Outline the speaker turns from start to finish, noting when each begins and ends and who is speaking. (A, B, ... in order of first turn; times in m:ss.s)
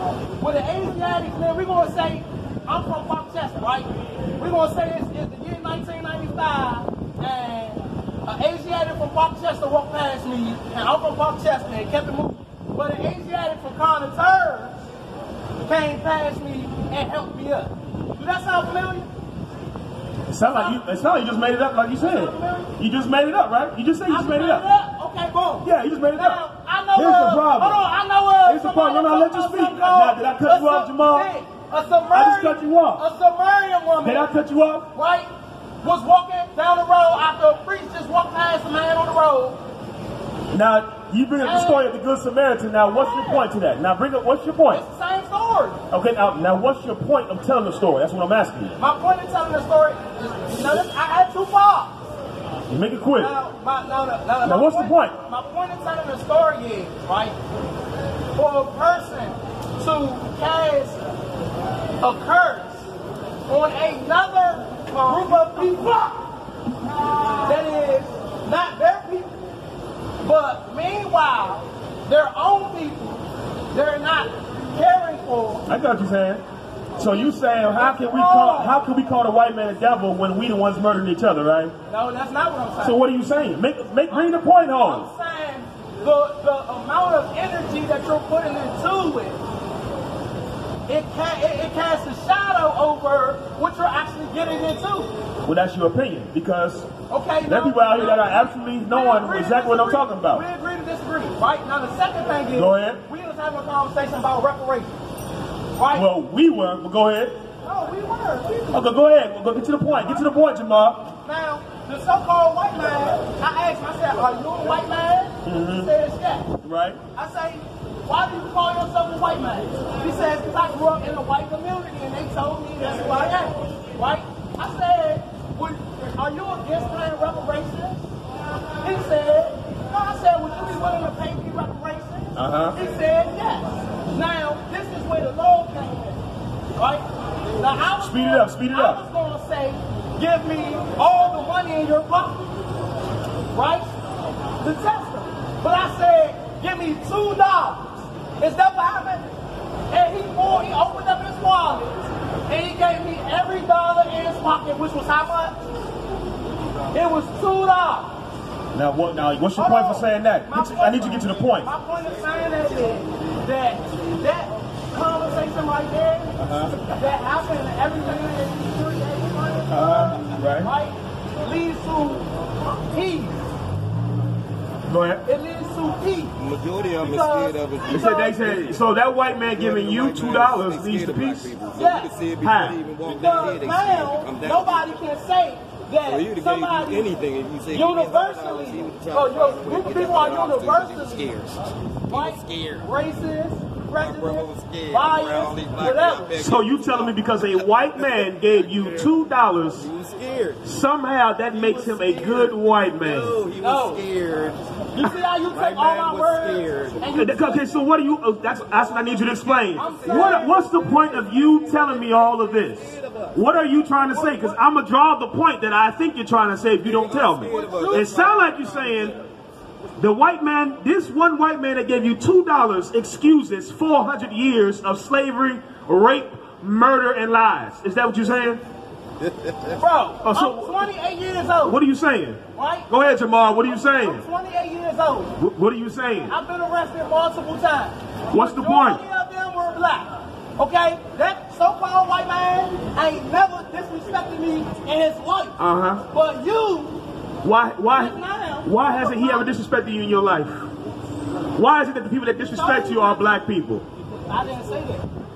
0:00.4-0:14.8 A
0:15.6-0:19.1 A
0:20.3-0:24.6 B
0:20.5-0:21.0 A
0:22.0-0:22.7 A
0:24.1-0:34.3 A
0:25.6-0:26.4 B
0:26.9-0:27.8 B
0:28.4-0:31.3 B
0:32.1-0:33.0 B
0:34.0-0:34.9 B
0:34.9-0:35.3 A
0:35.8-0:39.6 A
0:40.5-0:44.8 B
0:41.4-0:42.0 A
0:42.9-0:43.5 A
0:44.7-0:45.8 A
0:45.9-0:48.7 B
0:48.8-0:52.0 A
0:52.7-0:53.3 B
0:53.2-0:57.4 A
0:54.4-0:55.2 B
0:58.3-1:01.0 A
1:02.0-1:02.9 A
1:03.5-1:06.3 A
1:07.4-1:09.3 A
1:10.2-1:13.2 A
1:13.7-1:15.6 A
1:15.7-1:16.4 B
1:17.0-1:21.8 B
1:17.0-1:18.8 A
1:21.9-1:23.0 A
1:22.8-1:25.1 B
1:24.1-1:29.4 A
1:30.9-1:35.1 A
1:35.4-1:36.9 B
1:37.1-1:45.0 A
1:37.4-1:40.4 B
1:42.5-1:43.0 B
1:45.7-1:46.1 A
1:45.9-1:47.4 B
1:47.6-1:48.8 A
1:48.7-1:51.1 B
1:51.2-1:56.5 A
1:55.4-1:55.9 B
1:56.6-1:57.0 B
1:57.1-2:08.0 A
2:08.8-2:16.2 A
2:12.3-2:12.8 B
2:16.7-2:17.0 A
2:17.6-2:22.5 A
2:18.0-2:19.0 B
2:23.5-2:23.9 A
2:24.6-2:29.3 A
2:29.9-2:35.6 A
2:36.9-2:38.2 A
2:38.7-2:41.7 B
2:39.6-2:53.5 A
2:46.4-2:46.8 B
2:49.7-2:50.7 B
2:54.9-2:55.2 B
2:55.2-2:56.3 A
2:56.3-2:58.8 C
2:57.0-2:58.6 A
2:57.9-3:01.6 B
2:59.5-3:05.0 C
3:01.7-3:02.1 A
3:02.4-3:02.8 B
3:03.0-3:07.1 A
3:06.0-3:12.9 C
3:07.7-3:11.3 A
3:12.1-3:16.4 A
3:13.9-3:17.4 C
3:16.4-3:19.9 B
3:18.0-3:19.1 C
3:19.7-3:20.6 C
3:20.6-3:23.4 B
3:21.5-3:27.2 C
3:23.6-3:24.0 A
3:24.9-3:27.6 A
3:27.1-3:39.2 B
3:28.7-3:34.6 C
3:29.7-3:30.8 A
3:36.8-3:39.2 C
3:37.4-3:38.5 A
3:40.0-3:48.6 B
3:49.8-3:51.8 A
3:50.2-3:50.8 B
3:51.6-3:54.2 B
3:52.5-3:55.3 A
3:55.4-3:56.4 B
3:56.3-4:07.0 A
3:58.3-3:59.0 B
4:05.6-4:06.0 B
4:07.4-4:10.7 B
4:07.9-4:09.5 A
4:11.5-4:13.8 B
4:12.4-4:13.5 A
4:14.1-4:15.0 A